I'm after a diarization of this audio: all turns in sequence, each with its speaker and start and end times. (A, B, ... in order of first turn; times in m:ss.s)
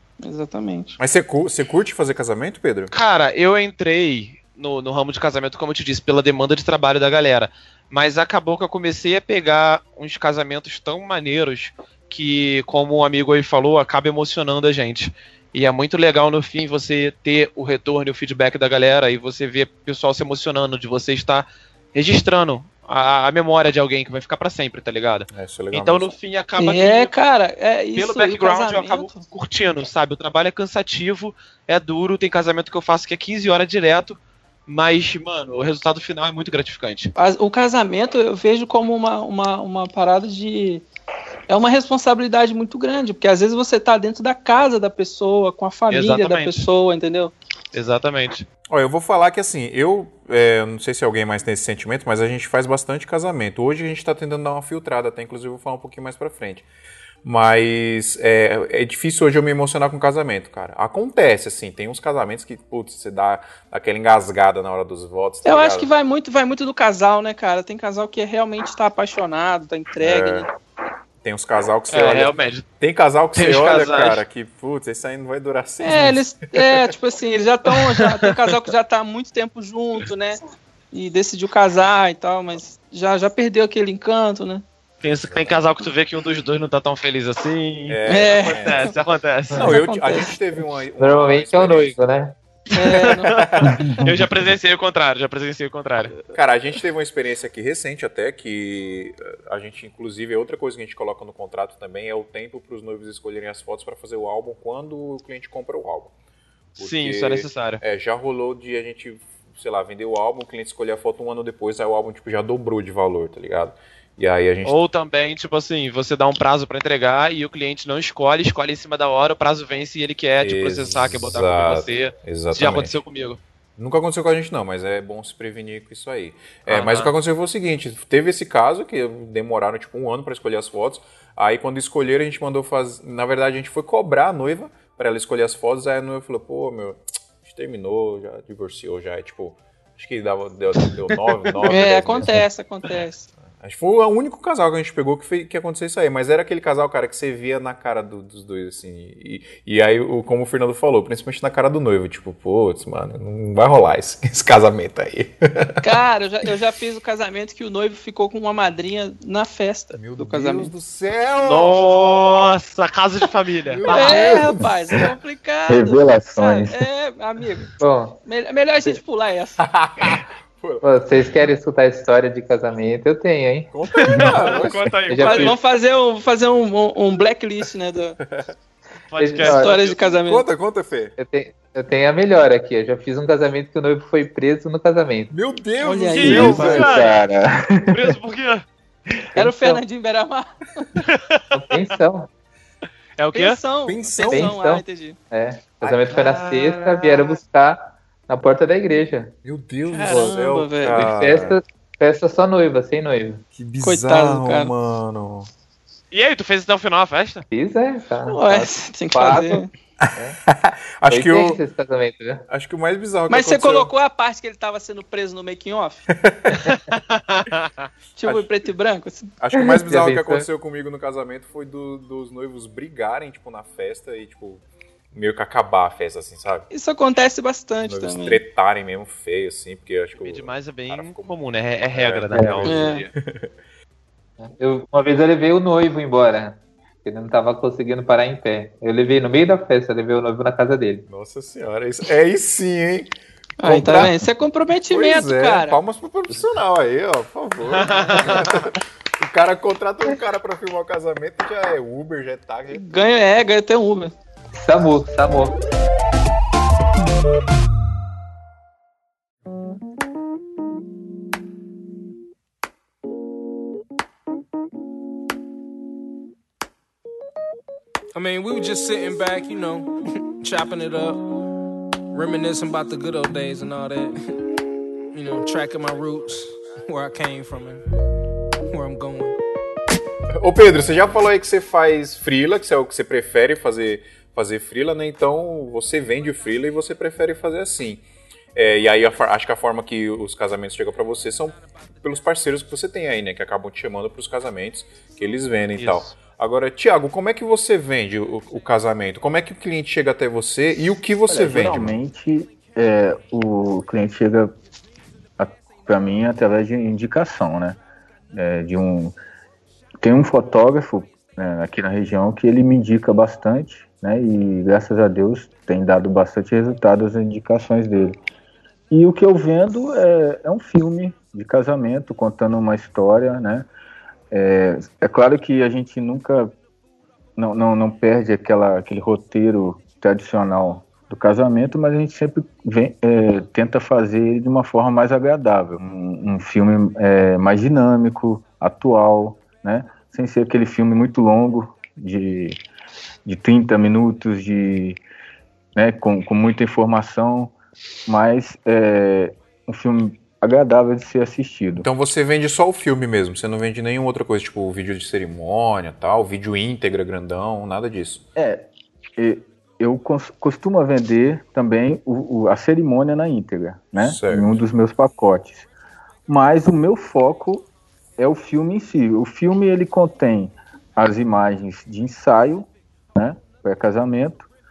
0:00.2-0:01.0 A
0:01.0-0:02.9 B
0:02.9-0:27.1 C
0:25.3-0:26.1 B
0:26.6-0:29.2 A
0:28.0-0:37.1 C
0:37.2-0:40.8 A
0:41.5-0:47.3 A
0:45.9-0:46.7 C
0:47.7-0:48.4 C
0:48.7-0:56.6 B
0:57.2-1:05.9 B
1:05.4-1:10.5 A
1:10.0-1:10.5 B
1:11.2-1:16.8 B
1:11.9-1:12.6 C
1:13.3-1:14.2 C
1:15.8-1:20.4 A
1:17.9-1:18.4 C
1:20.9-1:24.6 A
1:25.0-1:29.7 C
1:27.9-1:28.9 B
1:28.1-1:28.9 A
1:29.6-1:32.0 B
1:29.6-1:30.4 A
1:31.0-1:32.4 D
1:32.7-1:36.2 C
1:32.7-1:34.1 A
1:33.4-1:33.8 B
1:33.6-1:34.0 E
1:36.3-1:46.1 B
1:46.8-1:47.8 C
1:46.8-1:54.7 B
1:54.6-2:03.4 C
2:00.4-2:03.0 B
2:03.8-2:22.4 B
2:06.7-2:07.1 C
2:21.6-2:23.3 A
2:23.6-2:36.0 B
2:35.8-2:40.7 A
2:39.9-2:41.8 B
2:41.4-2:44.3 C
2:43.6-2:45.0 B
2:43.8-2:47.7 A
2:45.7-2:46.9 E
2:47.8-2:48.2 D
2:48.2-2:49.6 A
2:49.6-2:50.9 B
2:50.8-2:53.7 D
2:53.7-2:54.9 B
2:54.0-2:55.6 C
2:55.1-2:55.6 D
2:55.2-2:58.2 A
2:59.1-3:00.2 C
2:59.2-2:59.7 D
2:59.5-3:00.4 A
3:00.2-3:01.1 B
3:01.2-3:05.3 D
3:05.3-3:07.1 B
3:05.8-3:07.0 A
3:06.1-3:07.2 C
3:06.2-3:08.2 E
3:07.9-3:08.6 C
3:09.3-3:10.8 A
3:09.4-3:09.8 D
3:11.0-3:11.5 C
3:11.5-3:12.3 D
3:13.2-3:13.6 C
3:13.3-3:15.2 A
3:13.8-3:14.6 B
3:14.3-3:19.3 D
3:16.1-3:17.4 C
3:19.4-3:21.6 B
3:19.9-3:21.1 A
3:20.9-3:23.4 D
3:23.5-3:25.5 B
3:23.8-3:24.7 A
3:26.1-3:27.4 C
3:27.5-3:30.4 D
3:28.3-3:29.7 A
3:30.0-3:31.6 B
3:31.1-3:32.4 D
3:32.5-3:33.9 B
3:33.3-3:36.0 A
3:36.1-3:36.8 B
3:36.9-3:37.8 C
3:38.2-3:39.3 A
3:39.4-3:46.7 B
3:39.5-3:40.4 D
3:46.7-3:48.4 A
3:47.8-3:51.3 B
3:50.2-3:53.1 C
3:51.9-3:53.5 B
3:52.3-3:52.7 D
3:52.6-3:53.0 A
3:54.4-4:01.0 D
4:01.1-4:04.2 B
4:03.6-4:05.8 A
4:04.9-4:13.1 B
4:07.7-4:08.6 C
4:12.7-4:14.1 A
4:14.5-4:15.5 D
4:28.1-4:31.4 F
4:32.1-4:34.5 F
4:35.1-4:37.8 F
4:38.6-4:39.4 F
4:40.4-4:48.0 B
4:48.5-5:02.0 B
4:55.8-4:56.1 C
5:01.3-5:04.5 E
5:05.4-5:07.8 E
5:08.3-5:09.2 E
5:10.0-5:18.2 E
5:18.9-5:23.7 E
5:24.3-5:26.5 E
5:27.4-5:42.6 E
5:43.2-5:45.0 E
5:45.7-5:47.5 E
5:48.0-5:51.8 E
5:51.8-5:58.2 B
5:58.4-5:58.6 E
5:59.2-6:05.7 E
6:04.0-6:04.6 B
6:06.3-6:07.7 E
6:08.2-6:14.5 E